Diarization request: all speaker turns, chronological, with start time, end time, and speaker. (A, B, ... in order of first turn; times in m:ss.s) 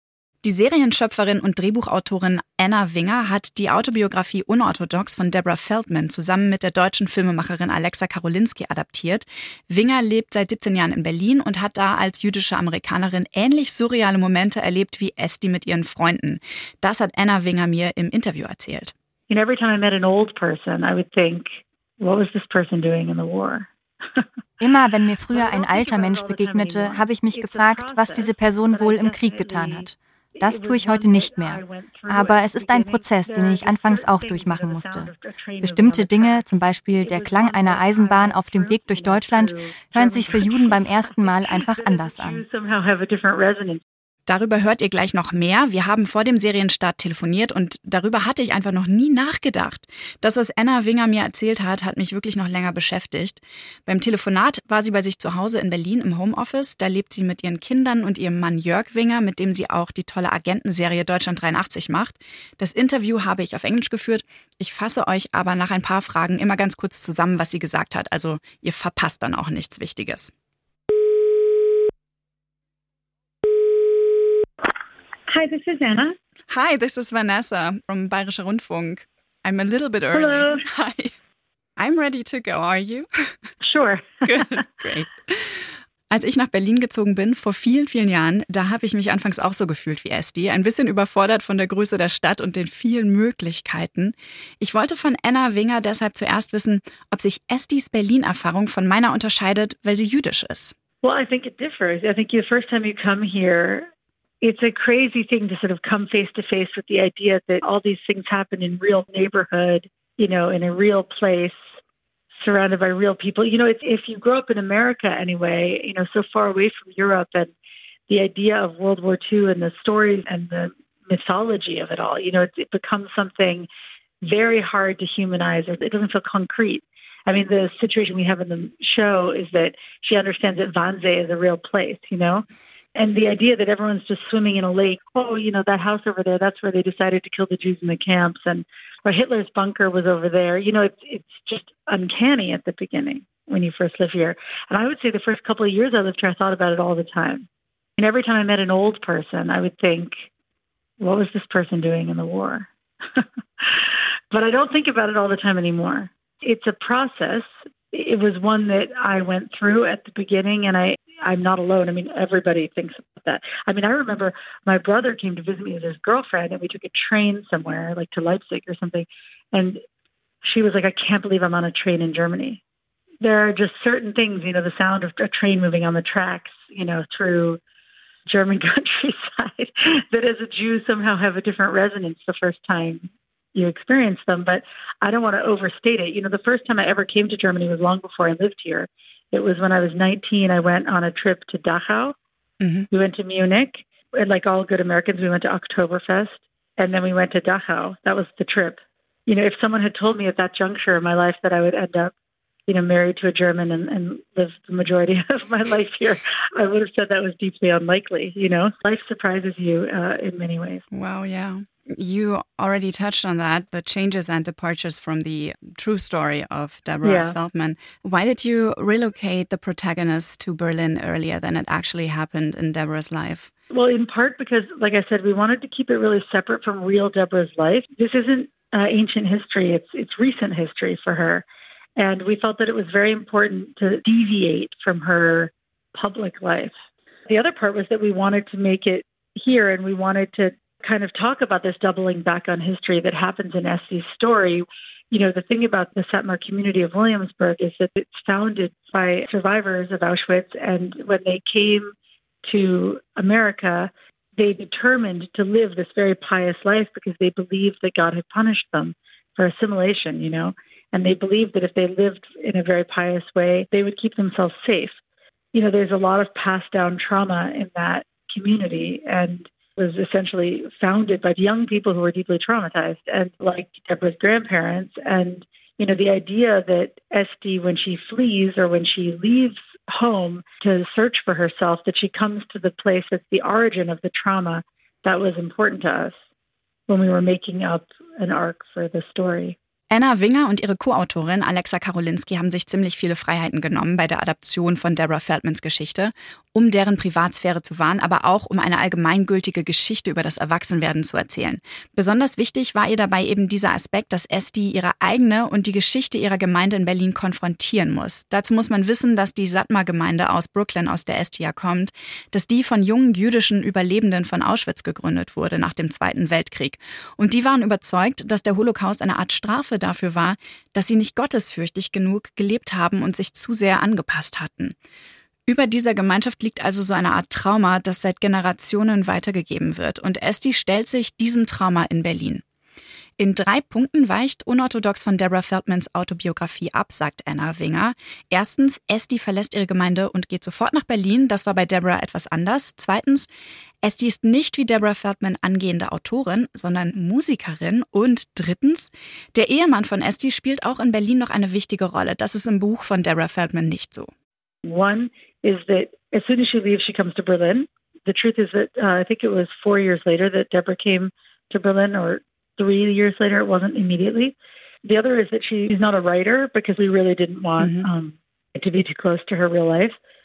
0:00.4-0:18.9 A
0:19.3-0:23.7 B
0:24.6-0:35.1 C
0:25.3-0:43.8 B
0:35.6-0:42.4 C
0:44.3-1:10.3 A
1:15.3-1:16.2 B
1:16.5-1:21.1 A
1:20.1-1:20.6 B
1:21.8-1:23.1 A
1:23.6-1:24.6 B
1:24.2-1:40.8 A
1:41.0-1:43.9 B
1:44.4-1:51.6 B
1:52.4-1:57.5 B
1:58.1-2:03.7 B
2:04.2-2:12.4 B
2:13.0-2:27.5 B
2:28.0-2:30.3 B
2:31.0-2:49.8 B
2:50.4-2:52.6 B
2:53.2-2:57.6 B
2:58.3-3:12.2 B
3:12.6-3:12.9 A
3:12.9-3:22.1 B
3:22.7-3:30.8 B
3:30.9-3:43.5 A
3:37.0-3:37.4 B
3:43.7-3:51.4 B
3:52.0-3:56.7 B
3:57.3-4:25.0 B
4:25.5-4:46.2 B
4:46.9-4:49.6 B
4:49.9-5:24.8 A
5:25.5-5:32.4 A
5:33.2-5:43.3 A
5:43.8-5:54.1 A
5:54.6-6:10.0 B
6:07.6-6:07.9 A